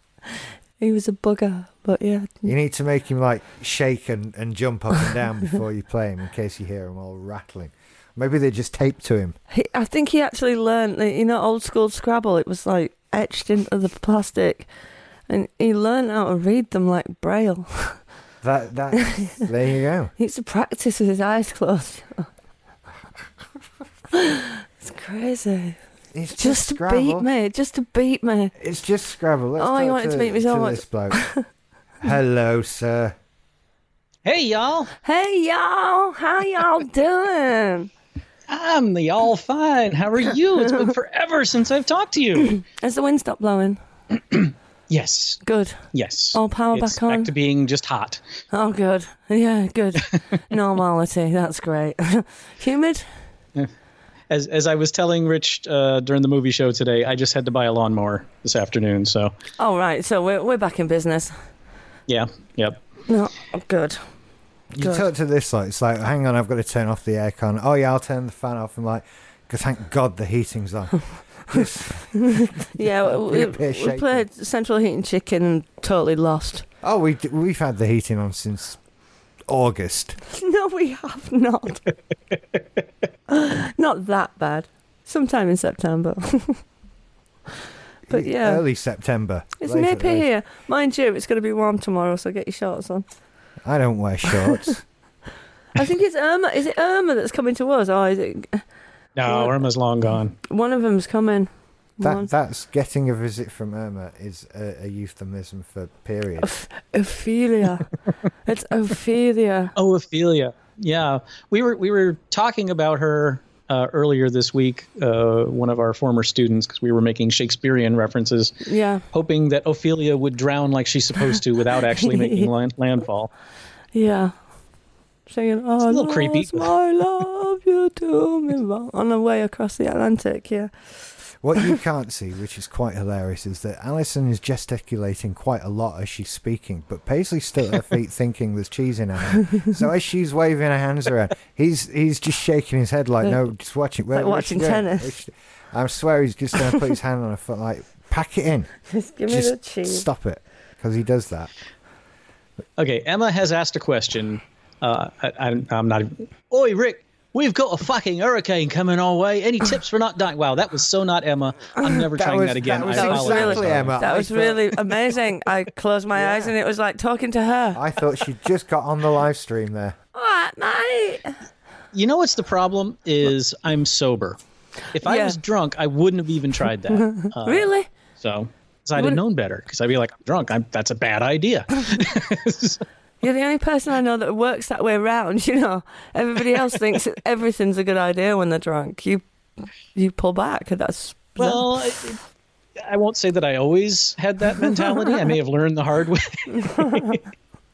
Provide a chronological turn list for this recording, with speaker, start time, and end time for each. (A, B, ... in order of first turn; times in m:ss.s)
0:00.8-0:02.5 A
0:02.4-0:09.4 B
0:09.5-0:14.7 A
0:15.3-0:18.0 A
0:18.4-0:20.1 B
0:18.9-0:19.4 A
0:20.2-0:22.3 A
0:24.1-0:25.8 A
0:26.1-0:27.3 B
0:26.4-0:28.5 A
0:28.6-0:31.2 B
0:29.6-0:31.4 A
0:32.0-0:33.1 B
0:34.2-0:34.9 C
0:35.0-0:37.9 A
0:38.5-0:42.6 C
0:42.5-0:43.8 A
0:44.3-0:45.4 C
0:45.4-0:45.8 A
0:45.9-0:48.2 C
0:46.3-0:47.3 A
0:48.5-0:53.1 A
0:54.3-0:59.3 C
0:59.6-1:01.3 A
1:02.1-1:02.8 C
1:03.1-1:04.0 A
1:04.7-1:14.2 B
1:12.2-1:16.6 A
1:16.8-1:18.8 B
1:19.5-1:20.2 B
1:20.2-1:21.8 A
1:23.3-1:26.6 A
1:28.1-1:30.3 B
1:28.1-1:28.6 A
1:29.6-1:33.0 A
1:33.6-1:34.8 B
1:35.8-1:38.6 A
1:39.2-1:40.4 C
1:39.2-1:39.6 A
1:40.4-1:42.3 A
1:42.0-1:46.5 B
1:46.4-1:47.9 A
1:48.4-1:49.7 A
1:49.8-1:58.6 C
1:58.6-1:59.0 A
1:59.1-2:03.3 C
2:02.0-2:02.5 A
2:03.9-2:04.4 A
2:05.3-2:10.7 A
2:05.9-2:06.7 C
2:11.4-2:28.7 B
2:24.1-2:25.2 A
2:28.9-2:30.0 A
2:29.3-2:31.5 B
2:32.8-2:44.0 C
2:42.0-2:44.8 B
2:42.9-2:47.8 A
2:46.1-2:46.5 B
2:47.7-2:50.0 B
2:50.1-2:51.4 A
2:51.9-2:54.4 C
2:54.9-3:02.8 C
2:55.0-2:55.4 A
2:57.0-2:57.9 A
3:03.2-3:09.2 A
3:09.9-3:11.6 A
3:11.4-3:12.2 C
3:12.8-3:17.2 C
3:16.5-3:17.2 A